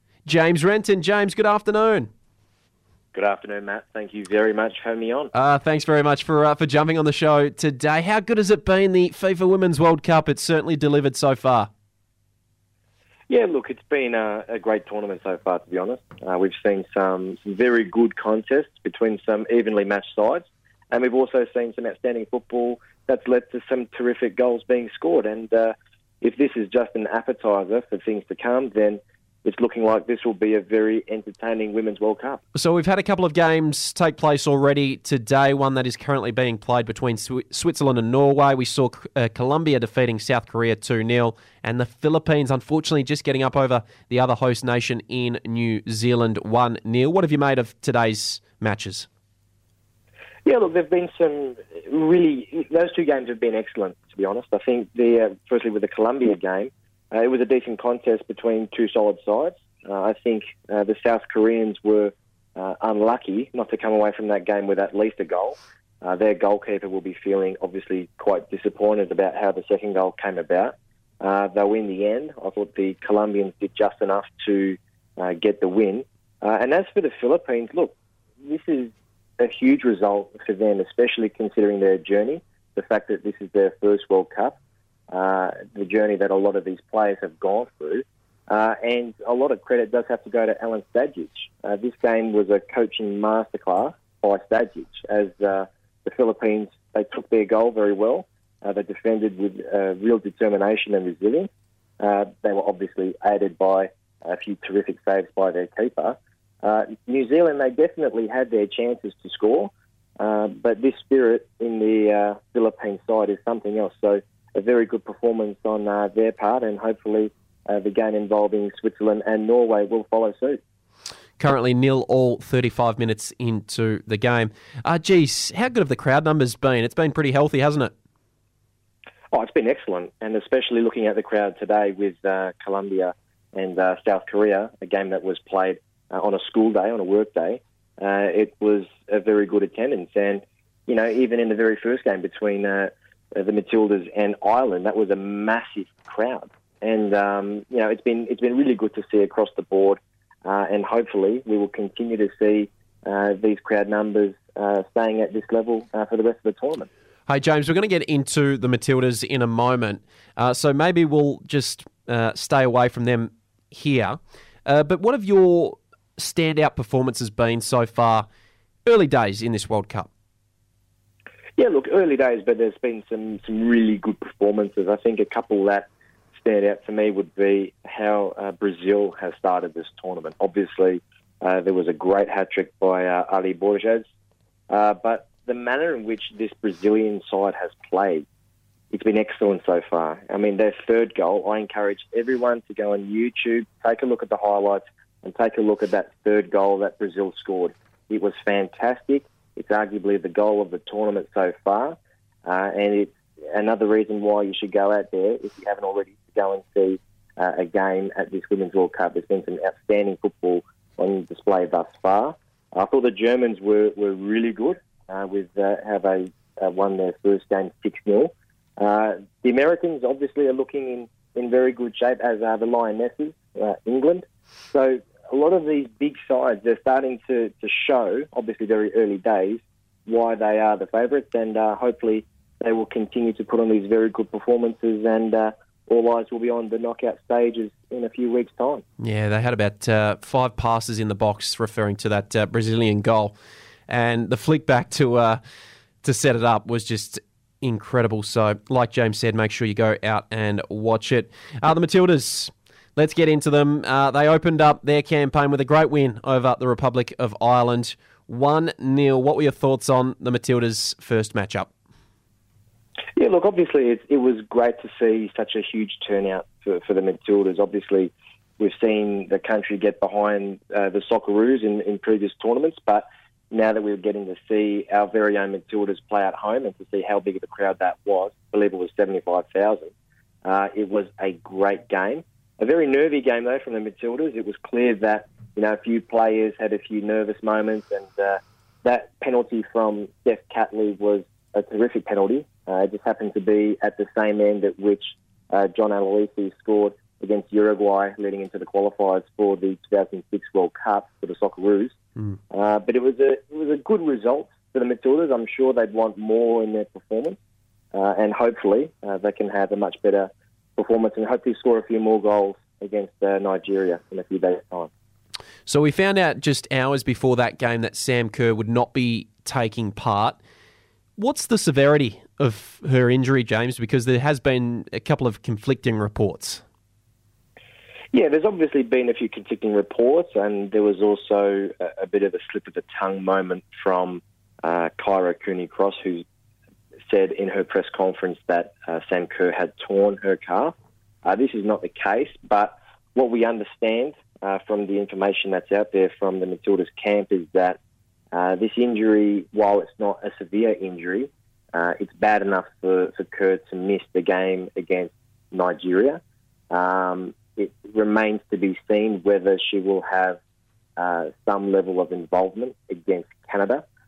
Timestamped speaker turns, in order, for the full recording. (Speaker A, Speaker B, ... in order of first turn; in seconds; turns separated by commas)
Speaker A: 0.2-2.1, Speaker B: 3.1-5.3, Speaker A: 5.3-11.7, Speaker B: 13.3-32.4, Speaker A: 32.5-49.1, Speaker B: 50.5-84.6, Speaker B: 85.1-101.5, Speaker B: 102.0-120.6, Speaker A: 121.4-127.9, Speaker B: 129.3-156.9, Speaker A: 157.3-168.2, Speaker A: 168.8-170.1, Speaker B: 171.6-184.1, Speaker B: 184.7-188.2, Speaker B: 188.9-238.8, Speaker A: 239.0-243.3, Speaker A: 243.9-245.4, Speaker A: 246.0-261.7, Speaker B: 263.2-279.9, Speaker B: 280.4-301.9, Speaker B: 302.5-307.4, Speaker B: 307.9-314.9, Speaker A: 315.7-320.4, Speaker A: 321.2-326.6, Speaker B: 328.1-336.2, Speaker B: 337.1-347.8, Speaker B: 348.3-360.4, Speaker B: 361.0-363.8